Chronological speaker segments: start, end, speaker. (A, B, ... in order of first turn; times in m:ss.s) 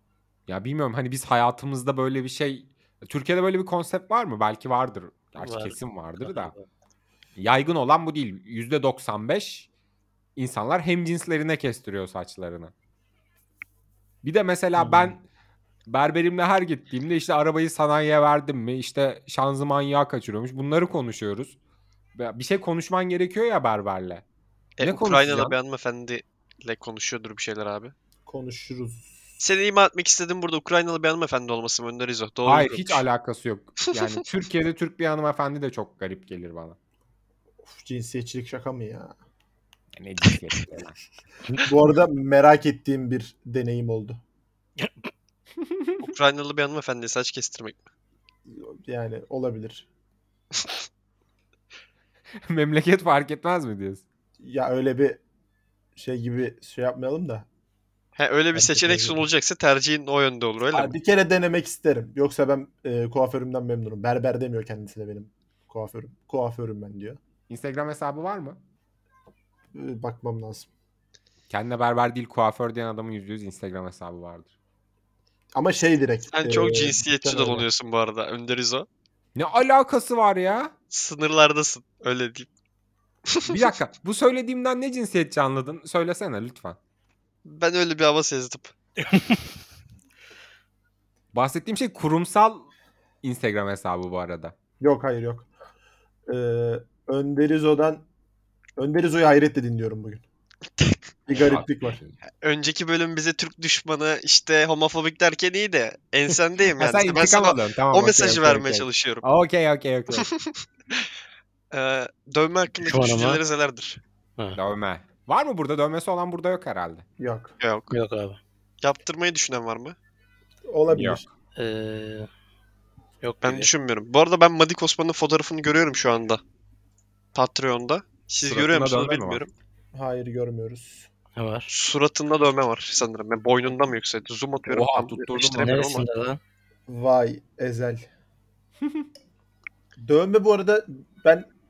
0:00.5-0:06.5 A
0:05.4-0:06.6 B
0:07.4-0:09.7 A
0:10.4-0:12.7 A
0:14.2-0:15.2 A
0:14.8-0:15.0 C
0:15.9-0:21.6 A
0:22.2-0:24.2 A
0:24.8-0:27.9 D
0:24.8-0:25.6 A
0:28.2-0:29.2 C
0:29.4-0:33.0 D
0:32.4-0:36.8 A
0:37.6-0:39.2 C
0:39.9-0:41.0 A
0:41.6-0:44.2 C
0:46.0-0:47.8 D
0:48.5-0:49.9 C
0:52.4-0:54.0 A
0:54.4-0:55.2 C
0:56.0-0:57.5 C
0:58.2-1:01.0 D
0:58.6-0:59.2 C
1:00.7-1:07.2 C
1:07.5-1:08.6 A
1:09.7-1:10.7 C
1:11.5-1:14.5 A
1:15.5-1:17.7 C
1:16.3-1:18.8 D
1:19.4-1:20.7 A
1:20.9-1:22.5 D
1:23.3-1:23.7 D
1:23.5-1:26.8 A
1:27.4-1:28.7 D
1:29.0-1:29.4 B
1:31.3-1:32.7 A
1:33.2-1:34.5 A
1:34.8-1:35.5 C
1:36.3-1:38.0 C
1:38.8-1:40.2 C
1:41.3-1:42.0 C
1:41.3-1:42.2 A
1:42.4-1:49.3 D
1:46.8-1:50.3 A
1:50.1-1:50.6 D
1:51.7-1:54.0 D
1:52.8-1:53.4 B
1:54.6-1:57.0 A
1:57.2-1:57.5 C
1:57.6-1:57.9 D
1:57.9-1:58.4 B
1:58.8-2:00.0 D
2:00.6-2:01.2 C
2:00.9-2:01.2 A
2:01.5-2:02.3 B
2:03.2-2:03.7 B
2:03.4-2:06.4 D
2:07.3-2:09.5 D
2:08.4-2:09.5 A
2:09.9-2:11.1 C
2:11.4-2:11.7 B
2:11.7-2:16.0 D
2:14.7-2:15.8 A
2:15.6-2:16.4 B
2:16.9-2:18.1 C
2:20.0-2:21.5 C